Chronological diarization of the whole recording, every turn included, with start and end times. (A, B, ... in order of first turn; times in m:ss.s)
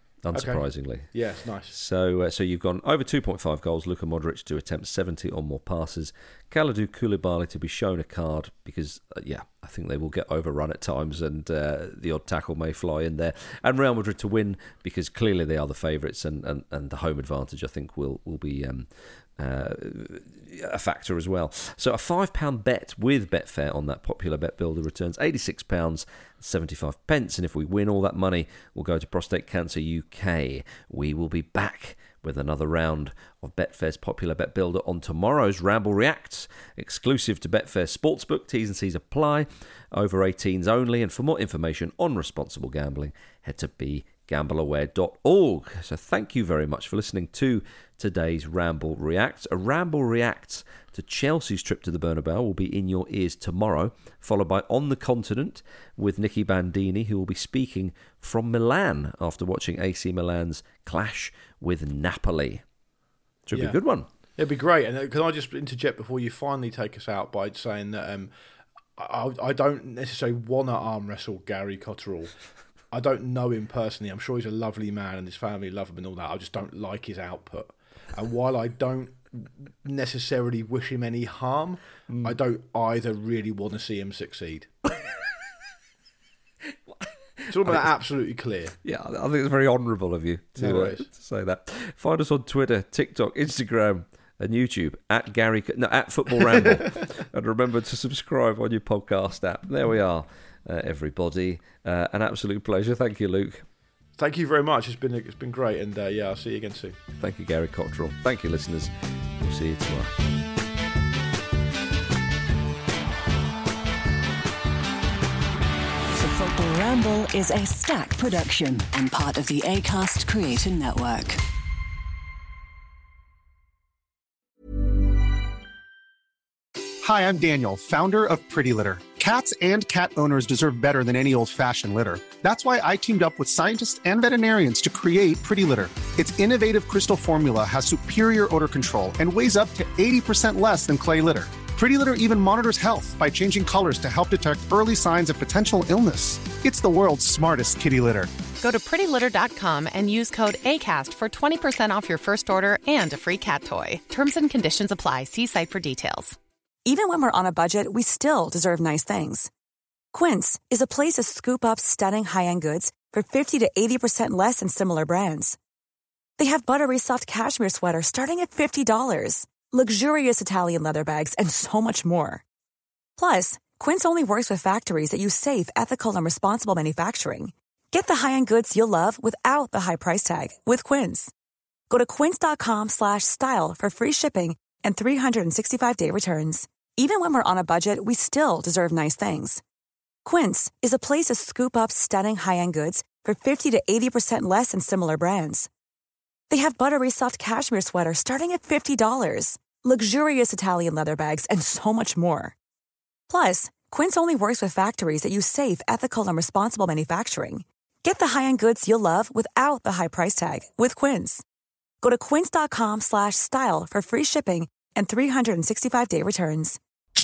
0:00.2-0:01.1 A
0:00.3-0:01.8 B
0:01.7-1:02.6 A
1:03.5-1:04.0 A
1:04.4-1:08.3 B
1:09.0-1:12.3 B
1:12.9-1:24.7 B
1:22.1-1:22.3 A
1:27.5-1:27.9 A
1:27.5-1:28.7 B
1:28.8-1:43.6 A
1:30.6-1:31.0 B
1:44.2-1:47.0 B
1:47.2-1:50.1 A
1:56.1-2:01.4 C
2:07.0-2:28.3 D
2:28.6-2:36.4 E
2:36.9-2:39.5 F
2:40.1-2:45.6 F
2:46.4-2:52.4 F
2:53.2-3:01.3 F
3:01.9-3:09.6 F
3:10.2-3:15.7 F
3:16.5-3:22.6 F
3:23.3-3:31.4 F
3:32.0-3:36.8 F